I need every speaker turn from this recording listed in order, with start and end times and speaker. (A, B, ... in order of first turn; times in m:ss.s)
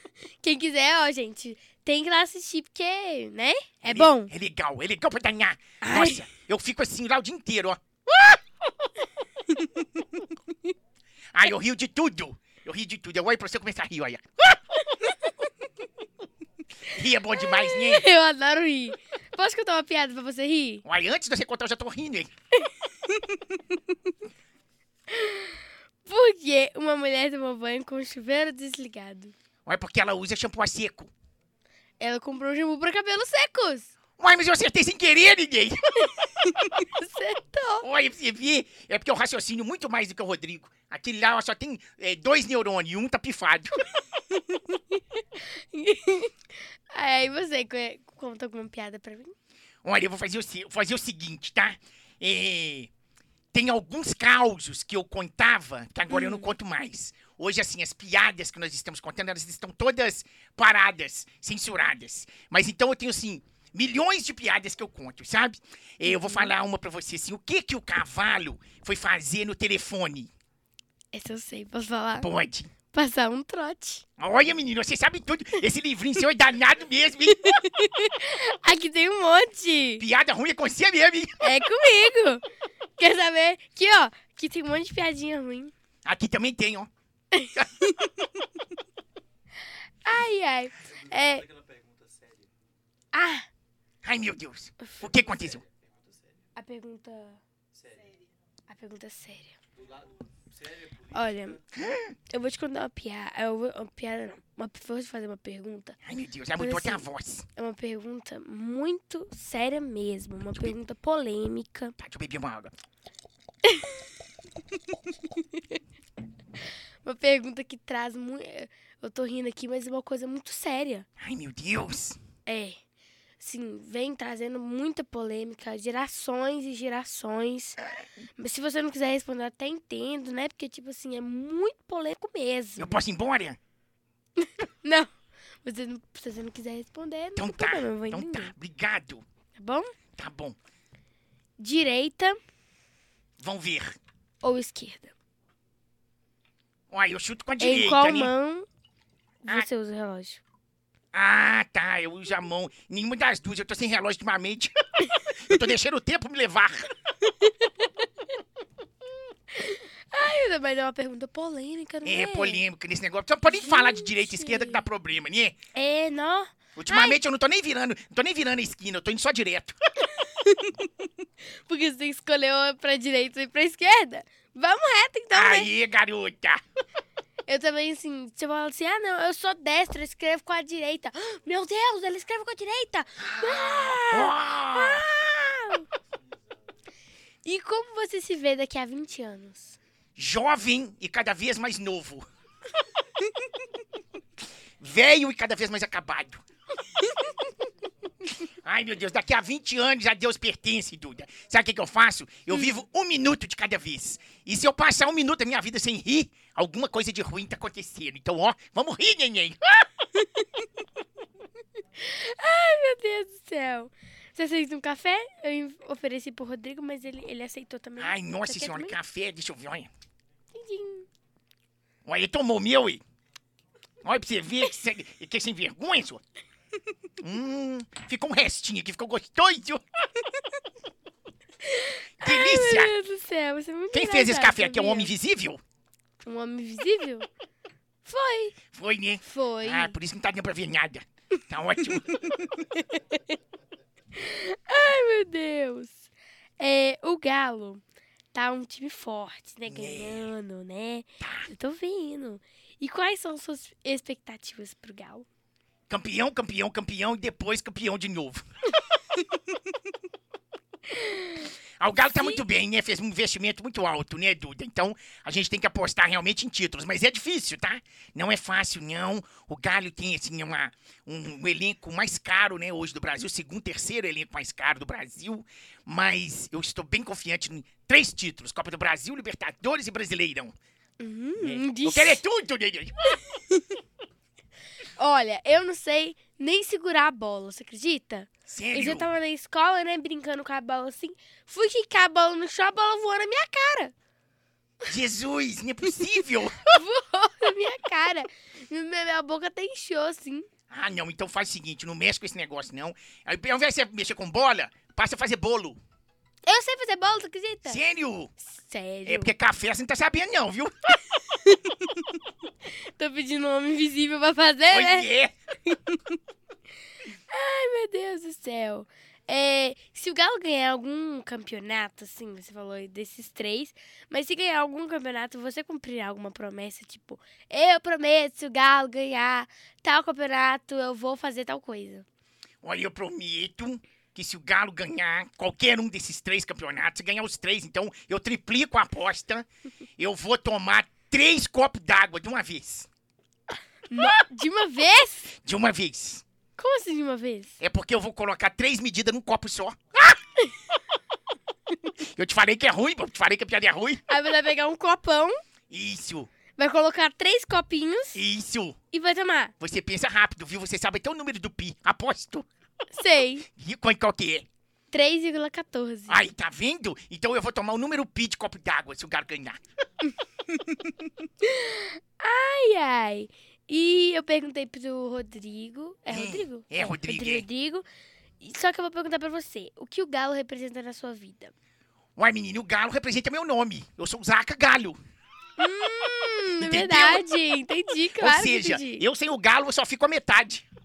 0:00.4-0:04.3 A
0:03.8-0:08.3 B
0:05.8-0:06.2 A
0:11.3-0:14.6 B
0:14.9-0:15.2 A
0:16.9-0:18.1 B
0:17.3-0:20.8 A
0:20.8-0:22.3 B
0:25.1-0:29.3 A
0:29.6-0:31.1 B
0:32.0-0:33.9 A
0:34.2-0:36.6 B
0:36.7-0:37.9 A
0:37.8-0:43.8 B
0:44.3-0:45.0 A
0:45.5-0:46.4 A
0:46.9-0:49.3 A
0:49.8-0:52.9 B
0:53.5-1:10.3 B
0:56.1-0:56.5 A
1:06.0-1:06.5 A
1:11.1-1:12.3 A
1:12.2-1:12.7 B
1:12.9-1:14.0 A
1:14.2-1:17.6 B
1:17.3-1:20.0 A
1:20.0-1:21.4 B
1:21.4-1:22.4 A
1:23.0-1:25.7 A
1:26.0-1:26.9 B
1:27.3-1:28.0 A
1:30.0-1:31.4 A
1:30.8-1:32.5 C
1:33.1-1:33.5 A
1:34.0-1:35.6 B
1:35.0-1:36.5 C
1:36.6-1:37.4 A
1:37.7-1:38.2 C
1:38.7-1:39.5 A
1:39.7-1:41.6 C
1:41.1-1:41.6 A
1:41.7-1:42.1 B
1:42.3-1:46.0 A
1:46.0-1:47.4 B
1:46.6-1:47.0 A
1:47.6-1:52.0 A
1:52.0-1:52.7 B
1:53.6-1:54.0 A
1:57.0-2:01.0 A
2:01.2-2:02.2 B
2:02.4-2:02.8 A
2:03.4-2:07.8 A
2:08.4-2:13.0 A
2:12.8-2:13.6 B
2:14.4-2:15.1 A
2:15.6-2:18.5 A
2:17.4-2:19.2 B
2:19.6-2:19.9 A
2:20.2-2:20.6 B
2:21.6-2:22.4 A
2:23.4-2:24.0 B
2:24.4-2:25.1 A
2:26.9-2:28.3 B
2:27.6-2:28.6 A
2:29.4-2:30.4 A
2:31.1-2:36.9 B
2:37.2-2:37.9 A
2:39.5-2:42.6 A
2:42.0-2:45.6 B
2:43.5-2:44.8 A
2:45.7-2:47.2 A
2:46.8-2:49.8 B
2:50.2-2:50.8 A
2:51.7-2:55.7 A
2:55.3-2:56.6 B
2:57.5-3:05.9 A
3:03.2-3:05.2 B
3:07.4-3:09.8 A
3:10.2-3:12.2 B
3:14.8-3:16.4 B
3:18.4-3:29.9 B
3:30.2-3:30.4 A
3:32.0-3:38.9 A
3:38.0-3:39.9 B
3:40.5-3:41.1 A
3:42.0-3:43.0 B
3:44.0-3:46.2 B
3:47.2-3:49.8 B
3:51.6-3:55.1 A
3:52.2-3:52.9 B
3:53.9-3:55.6 B
3:56.2-3:57.3 A
3:58.0-3:58.6 A
3:58.7-4:02.5 B
3:59.2-4:00.0 A
4:01.9-4:03.2 A
4:04.1-4:06.1 A
4:06.6-4:07.8 A
4:08.3-4:15.2 A
4:09.7-4:10.3 B
4:11.2-4:11.5 B
4:15.9-4:18.4 B
4:20.9-4:21.5 A
4:21.8-4:40.5 B
4:22.1-4:22.4 A
4:41.0-4:42.2 A
4:41.4-4:43.2 B
4:45.0-4:53.9 A
4:48.5-4:49.1 B
4:54.9-4:56.8 B
4:56.6-5:00.5 A
5:00.7-5:05.8 B
5:06.4-5:07.8 A
5:07.6-5:08.3 B
5:08.4-5:09.3 A
5:09.0-5:11.0 B
5:13.0-5:15.1 A
5:14.7-5:15.3 B
5:15.7-5:16.0 A
5:17.3-5:32.0 A
5:32.6-5:39.4 B
5:40.0-5:42.9 B
5:43.9-5:45.3 A
5:45.4-5:46.2 B
5:46.6-5:47.6 A
5:47.6-5:50.2 B
5:52.0-5:54.0 B
5:54.1-5:55.4 A
5:55.7-5:56.3 B
5:56.6-5:58.2 A
5:58.1-5:58.8 B
5:58.9-5:59.5 A
5:59.6-6:02.4 B
6:02.9-6:03.4 A
6:03.5-6:04.4 B
6:04.9-6:06.2 A
6:06.1-6:09.6 B
6:11.4-6:17.8 A
6:16.1-6:17.4 B
6:18.4-6:21.5 A
6:22.2-6:25.0 B
6:25.6-6:29.0 A
6:26.6-6:27.2 B
6:28.2-6:30.6 B